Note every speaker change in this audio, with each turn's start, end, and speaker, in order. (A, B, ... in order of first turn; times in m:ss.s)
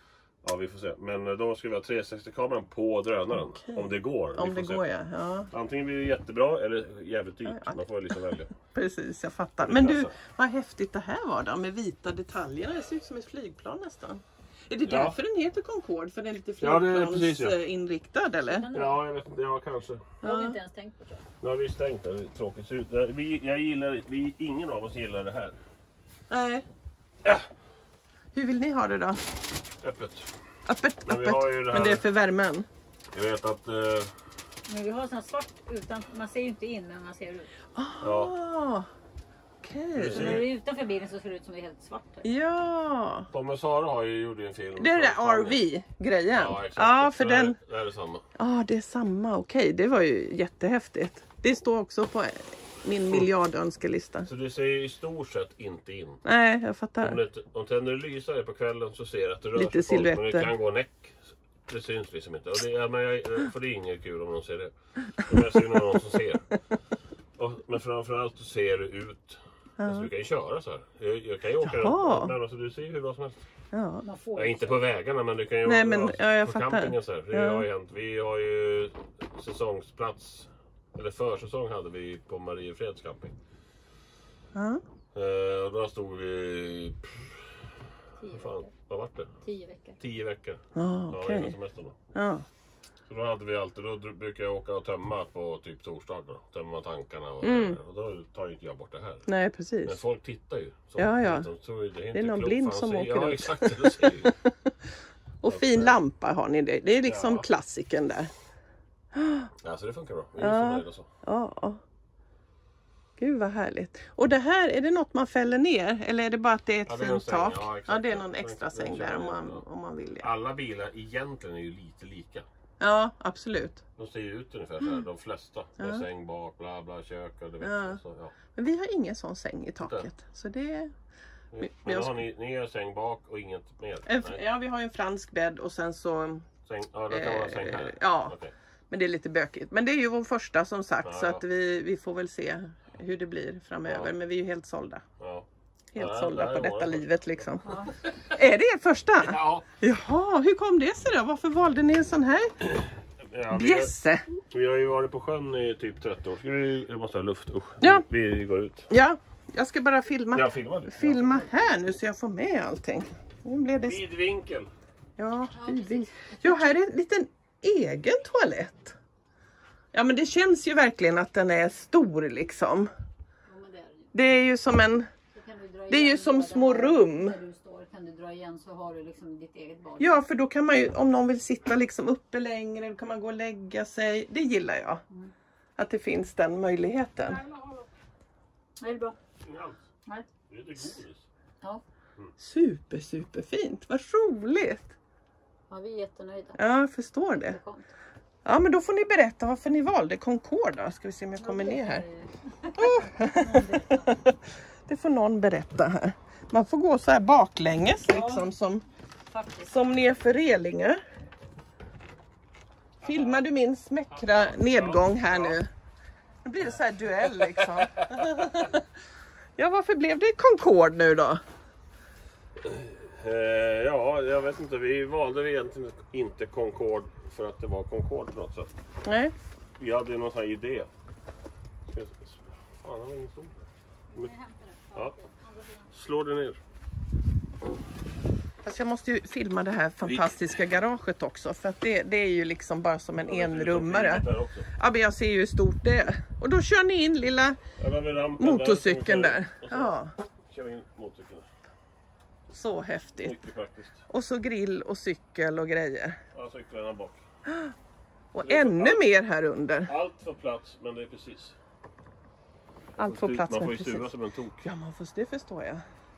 0:00.4-0:04.8 A
0:03.3-0:05.5 B
0:05.5-0:08.5 A
0:07.4-0:07.8 B
0:08.6-0:18.7 B
0:09.6-0:10.1 A
0:14.8-0:15.2 A
0:16.6-0:17.6 A
0:18.4-0:19.0 C
0:18.7-0:20.2 A
0:20.2-0:20.6 B
0:20.2-0:21.2 C
0:21.4-0:25.6 A
0:26.3-0:26.6 B
0:28.3-0:29.2 B
0:29.8-0:30.3 A
0:30.6-0:32.7 B
0:31.0-0:32.0 A
0:33.1-0:34.1 A
0:34.7-0:37.5 C
0:37.7-0:38.9 B
0:38.0-0:38.3 A
0:39.6-0:40.4 B
0:39.9-0:40.5 A
0:40.1-0:42.3 C
0:42.2-0:43.3 B
0:43.3-0:45.6 A
0:44.8-0:47.6 B
0:46.3-0:48.2 A
0:48.4-0:54.3 B
0:54.2-0:56.2 A
0:56.2-0:57.2 B
0:57.0-1:06.5 A
0:59.5-1:00.5 B
1:07.4-1:13.4 A
1:09.8-1:10.1 B
1:11.6-1:12.3 B
1:13.7-1:14.0 B
1:14.0-1:14.8 C
1:14.3-1:23.3 A
1:15.6-1:17.6 B
1:24.5-1:24.8 B
1:25.1-1:27.8 A
1:28.2-1:28.7 C
1:28.3-1:29.3 A
1:29.4-1:30.0 C
1:30.0-1:32.0 A
1:30.7-1:31.5 B
1:32.1-1:32.4 B
1:33.1-1:39.3 A
1:37.4-1:37.8 B
1:39.3-1:40.0 B
1:39.8-1:44.3 A
1:41.0-1:41.5 B
1:42.1-1:44.9 B
1:45.4-1:48.3 B
1:45.4-1:46.0 A
1:47.0-1:47.4 A
1:49.1-1:49.5 B
1:49.6-1:51.1 A
1:50.4-1:51.8 B
1:53.2-2:00.2 B
1:56.8-1:59.6 A
2:00.2-2:02.5 A
2:02.8-2:03.8 B
2:04.0-2:08.3 A
2:05.8-2:06.0 B
2:07.6-2:08.0 B
2:08.5-2:10.9 B
2:09.8-2:10.1 A
2:11.5-2:14.4 A
2:11.6-2:12.2 B
2:14.0-2:16.5 B
2:16.6-2:18.5 A
2:17.1-2:18.3 B
2:18.9-2:25.0 B
2:21.0-2:21.4 A
2:23.8-2:24.1 A
2:25.2-2:27.1 A
2:25.9-2:27.8 B
2:27.6-2:27.9 C
2:28.3-2:32.5 B
2:29.2-2:29.6 A
2:32.7-2:33.9 A
2:33.5-2:34.2 B
2:34.5-2:38.9 A
2:38.9-2:44.0 B
2:40.3-2:41.4 A
2:43.8-2:44.7 A
2:45.2-2:49.0 B
2:45.5-2:46.8 C
2:49.9-2:52.9 B
2:53.5-2:54.1 C
2:54.1-2:55.1 B
2:55.3-3:00.2 C
2:55.9-2:57.4 B
3:00.0-3:05.0 B
3:05.8-3:07.4 B
3:07.3-3:07.8 C
3:08.8-3:09.2 C
3:09.4-3:09.8 A
3:10.5-3:11.3 A
3:12.4-3:14.9 B
3:15.7-3:16.6 C
3:16.6-3:17.6 B
3:17.3-3:17.9 C
3:18.4-3:22.0 B
3:21.4-3:24.1 C
3:22.8-3:28.8 B
3:28.1-3:28.5 C
3:29.3-3:29.7 C
3:29.6-3:31.0 B
3:33.0-3:33.4 A
3:33.0-3:35.7 B
3:34.3-3:35.6 A
3:36.4-3:38.8 B
3:37.2-3:38.6 A
3:39.6-3:41.4 B
3:42.6-3:48.7 A
3:49.0-3:49.3 B
3:49.8-3:50.9 A
3:51.9-3:53.6 A
3:54.1-3:55.9 C
3:55.9-3:56.6 A
3:58.6-4:07.6 B
4:00.0-4:00.3 A
4:03.2-4:04.7 A
4:07.8-4:10.0 A
4:08.4-4:10.1 B
4:10.5-4:11.5 A
4:12.5-4:13.4 B
4:13.2-4:14.0 A
4:14.1-4:16.2 B
4:16.3-4:17.2 A
4:17.4-4:17.7 B
4:18.3-4:19.9 B
4:18.4-4:19.1 A
4:19.8-4:21.6 A
4:23.0-4:24.7 A
4:23.0-4:24.1 B
4:24.6-4:25.8 B